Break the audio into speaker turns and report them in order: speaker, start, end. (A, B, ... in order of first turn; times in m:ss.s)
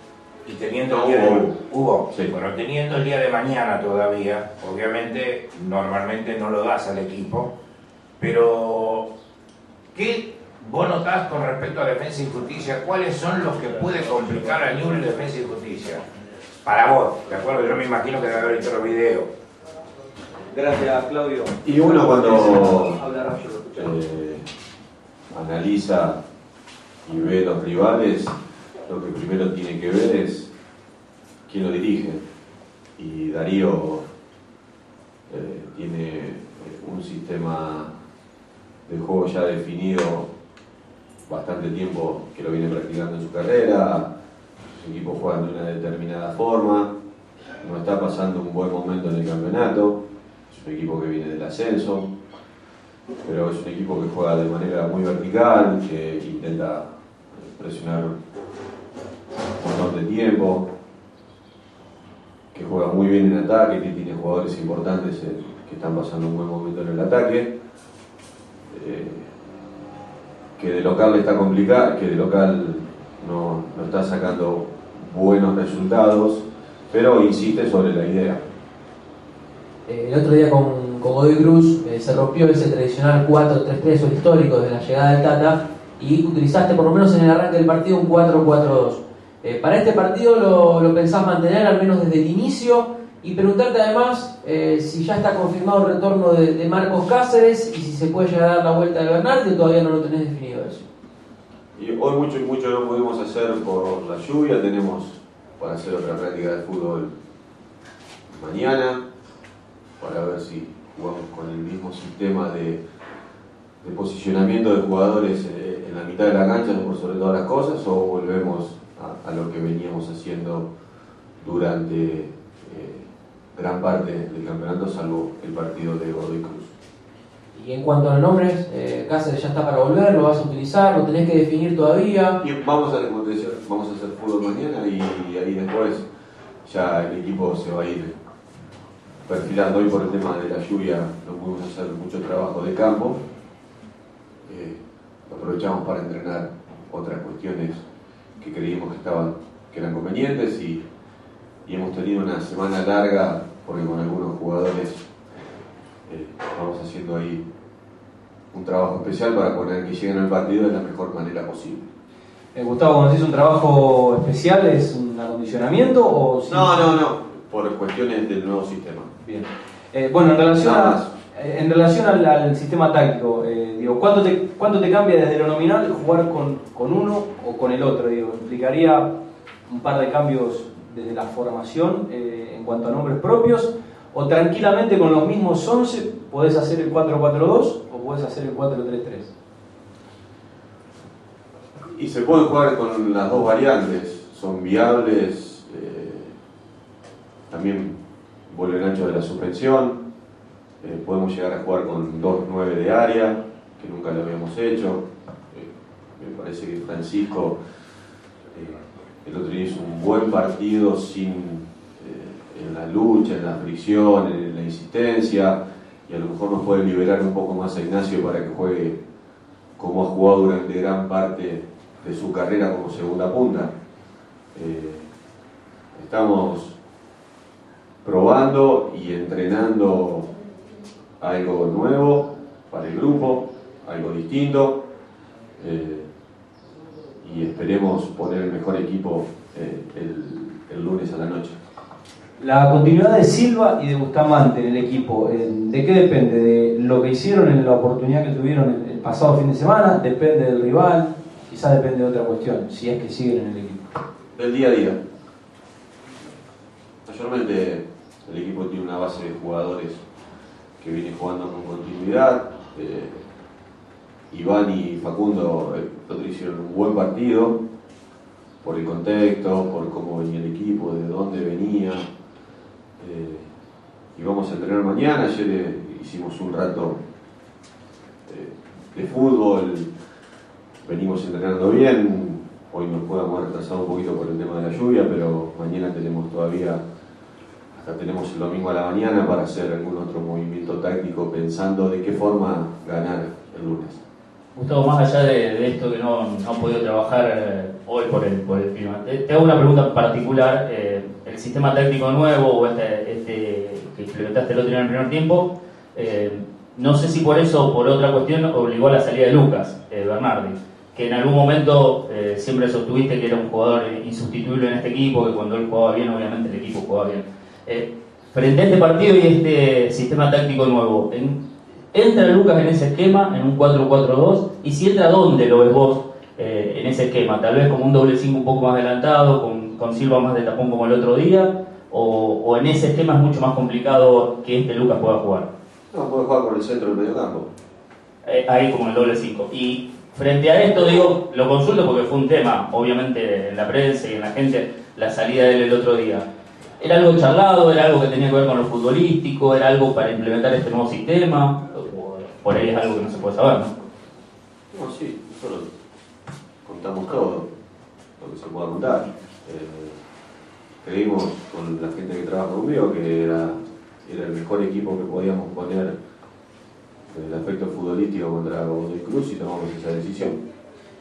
0:00.5-0:07.5 A
0:00.9-0:01.5 B
0:08.2-0:09.1 A
0:09.9-0:16.0 A
0:16.6-0:19.3 A
0:20.5-0:23.9 C
0:21.6-0:23.0 B
0:23.8-0:24.4 B
0:25.3-0:26.2 B
0:27.1-0:28.3 B
0:28.9-0:30.5 B
0:31.5-0:32.2 B
0:33.0-0:34.1 B
0:35.3-0:37.9 B
0:38.9-0:40.3 B
0:41.3-0:44.1 B
0:44.7-0:46.9 B
0:47.6-0:52.1 B
0:53.2-0:58.2 B
0:59.6-1:00.7 B
1:02.5-1:07.5 B
1:08.7-1:09.3 B
1:10.6-1:18.4 B
1:19.9-1:40.8 D
1:41.8-1:47.1 B
1:48.3-1:49.0 B
1:50.0-1:52.8 B
1:53.8-2:00.7 B
2:01.4-2:06.7 B
2:07.5-2:12.4 D
2:12.4-2:16.1 B
2:16.6-2:18.2 B
2:19.3-2:23.2 B
2:24.5-2:27.8 B
2:28.4-2:30.8 B
2:31.7-2:35.1 B
2:36.1-2:37.4 B
2:38.5-2:41.9 B
2:42.6-2:46.9 C
2:46.5-2:49.1 B
2:49.2-3:09.3 C
2:50.5-2:51.1 B
3:12.0-3:16.3 B
3:17.5-3:18.0 B
3:18.5-3:20.0 B
3:20.8-3:27.6 B
3:28.6-3:35.6 B
3:36.1-3:39.0 B
3:39.8-3:43.7 B
3:44.6-3:45.1 B
3:46.0-3:46.8 B
3:48.0-3:50.3 B
3:51.2-3:54.8 B
3:55.6-3:56.1 B
3:57.2-4:01.6 B
4:02.4-4:13.9 C
4:14.4-4:15.0 B
4:17.1-4:20.0 B
4:20.8-4:23.2 B
4:24.3-4:27.6 B
4:28.6-4:32.1 B
4:33.0-4:33.5 B
4:34.2-4:37.0 B
4:38.3-4:39.9 B
4:40.8-4:46.8 B
4:47.8-4:54.0 B
4:54.5-5:35.5 E
5:35.9-5:37.5 B
5:38.2-5:46.2 E
5:46.8-5:53.7 E
5:54.7-5:55.7 B
5:56.7-5:57.5 B
5:58.2-6:00.0 B
6:00.8-6:06.0 B
6:07.1-6:10.4 B